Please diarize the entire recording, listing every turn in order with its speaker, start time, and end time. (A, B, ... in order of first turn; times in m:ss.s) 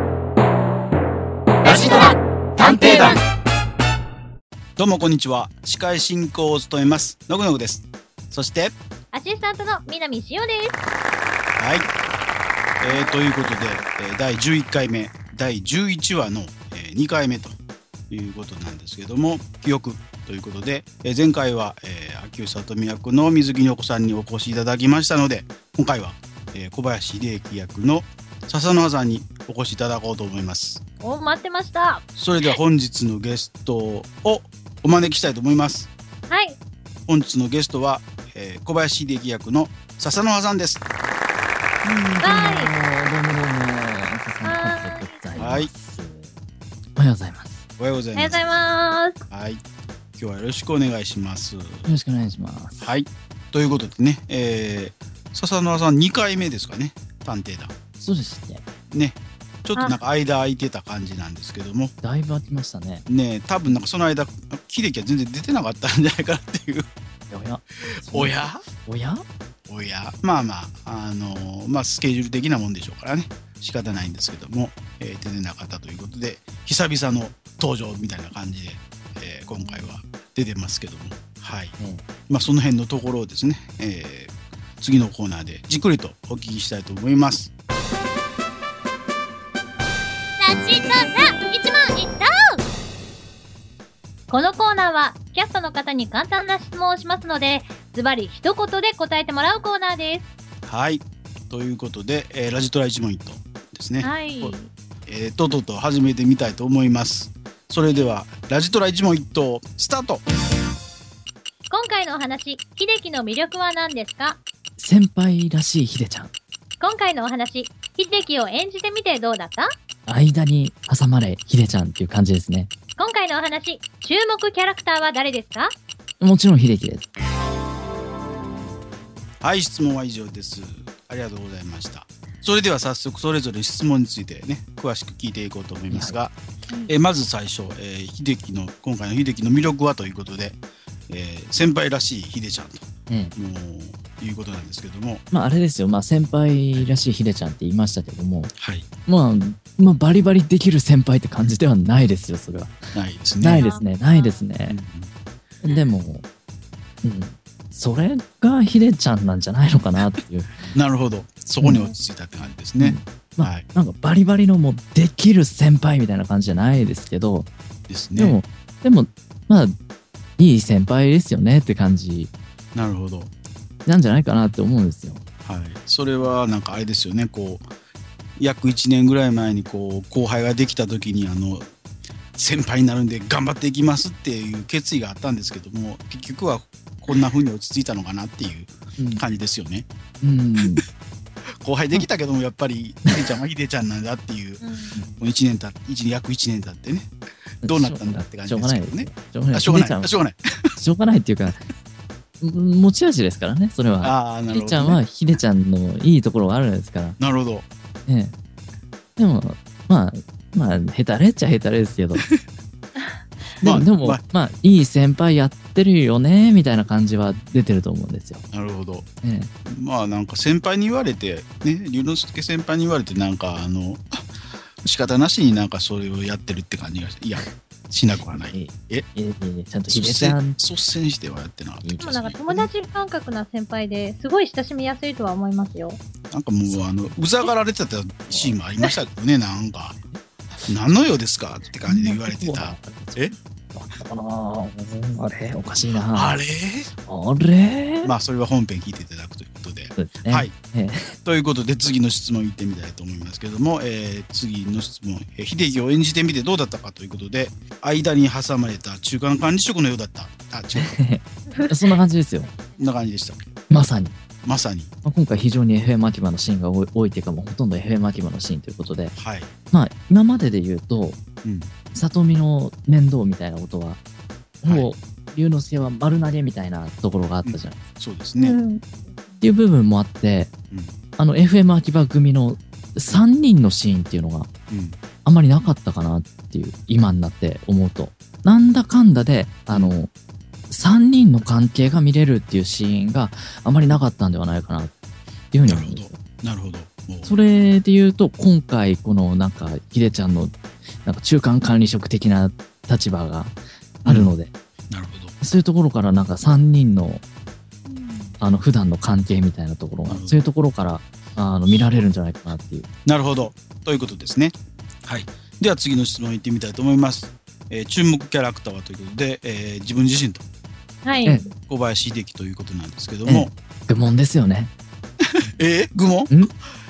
0:01.6-0:03.2 A
0:02.6-0:03.2 B
0:04.8-0:08.8 A
0:09.1-0:10.8 B
0:11.6-0:11.9 A
0:12.8-0:17.6 A
0:12.9-0:13.2 B
0:18.1-0:30.8 A
0:31.0-0:32.0 B
0:32.2-0:35.9 A
0:36.3-0:36.6 B
0:37.1-0:40.8 A
0:41.8-0:46.3 C
0:42.2-0:42.7 B
0:44.4-0:45.2 B
0:45.4-0:45.7 A
0:47.0-0:47.6 C
0:47.8-0:48.5 A
0:48.2-0:49.2 B
0:49.3-0:49.6 A
0:50.2-0:51.9 A
0:51.9-0:53.0 C
0:52.8-0:57.7 A
0:58.0-0:58.6 C
0:58.9-1:01.9 A
0:59.8-1:00.0 B
1:02.0-1:03.0 C
1:03.1-1:06.9 A
1:07.3-1:09.2 C
1:08.1-1:08.6 A
1:09.7-1:21.8 A
1:19.4-1:20.0 B
1:22.3-1:27.5 A
1:30.4-1:32.6 B
1:34.3-1:40.3 B
1:40.6-1:44.6 A
1:44.0-1:44.7 B
1:45.1-1:50.2 A
1:47.8-1:48.1 B
1:51.7-1:54.4 B
1:54.8-1:56.3 C
1:56.8-1:59.7 B
2:00.1-2:02.7 C
2:03.0-2:05.7 B
2:06.2-2:07.1 C
2:09.4-2:16.4 A
2:15.9-2:16.2 C
2:16.9-2:25.2 A
2:23.1-2:23.3 C
2:25.3-2:28.5 C
2:28.6-2:28.9 A
2:29.1-2:34.8 C
2:32.9-2:33.6 A
2:33.6-2:34.4 B
2:34.7-2:35.1 A
2:35.6-2:36.2 C
2:37.0-2:40.7 C
2:40.7-2:43.6 A
2:42.8-2:47.5 C
2:47.9-2:48.4 A
2:48.2-2:49.7 C
2:50.4-2:52.3 C
2:52.8-2:53.3 A
2:53.9-2:55.2 C
2:55.4-2:57.7 A
2:58.4-3:01.7 A
3:02.4-3:09.9 A
3:09.0-3:09.2 C
3:10.2-3:10.8 C
3:11.6-3:14.6 A
3:14.6-3:15.0 B
3:15.1-3:17.1 A
3:17.6-3:20.1 C
3:17.6-3:20.8 A
3:20.8-3:21.6 C
3:22.4-3:27.2 C
3:24.0-3:25.0 A
3:27.2-3:27.7 A
3:28.1-3:28.4 C
3:29.2-3:32.2 C
3:33.6-3:38.5 C
3:33.6-3:34.2 A
3:38.5-3:39.1 A
3:39.2-3:39.5 C
3:39.6-3:44.2 A
3:44.8-3:49.0 A
3:48.2-3:50.6 C
3:49.9-3:52.7 A
3:51.8-3:52.2 C
3:52.0-3:56.0 B
3:56.3-4:00.0 A
3:58.3-3:58.6 C
4:00.7-4:03.4 A
4:01.9-4:06.4 C
4:06.1-4:06.9 A
4:07.0-4:08.2 C
4:08.0-4:10.5 A
4:10.0-4:11.1 C
4:11.2-4:21.0 A
4:20.7-4:22.5 C
4:21.5-4:22.0 B
4:22.8-4:23.5 A
4:23.7-4:24.2 C
4:24.4-4:24.9 A
4:25.0-4:29.2 C
4:29.1-4:29.5 A
4:29.7-4:31.2 C
4:31.4-4:31.7 A
4:31.9-4:34.0 C
4:34.6-4:37.9 C
4:37.4-4:38.6 A
4:38.4-4:39.4 B
4:39.4-4:40.5 C
4:40.7-4:41.0 A
4:41.2-4:44.5 C
4:44.7-4:45.0 A
4:45.2-4:50.1 C
4:49.7-4:50.0 A
4:50.7-4:54.9 C
4:55.5-4:56.2 C
4:55.7-4:57.4 A
4:57.2-5:04.5 C
5:04.1-5:04.3 A
5:04.9-5:05.4 A
5:05.4-5:07.2 C
5:07.8-5:08.4 B
5:08.4-5:12.9 C
5:10.1-5:10.4 A
5:13.1-5:14.6 A
5:15.1-5:20.4 A
5:21.0-5:21.5 B
5:21.6-5:23.5 A
5:23.3-5:24.7 C
5:25.6-5:26.3 A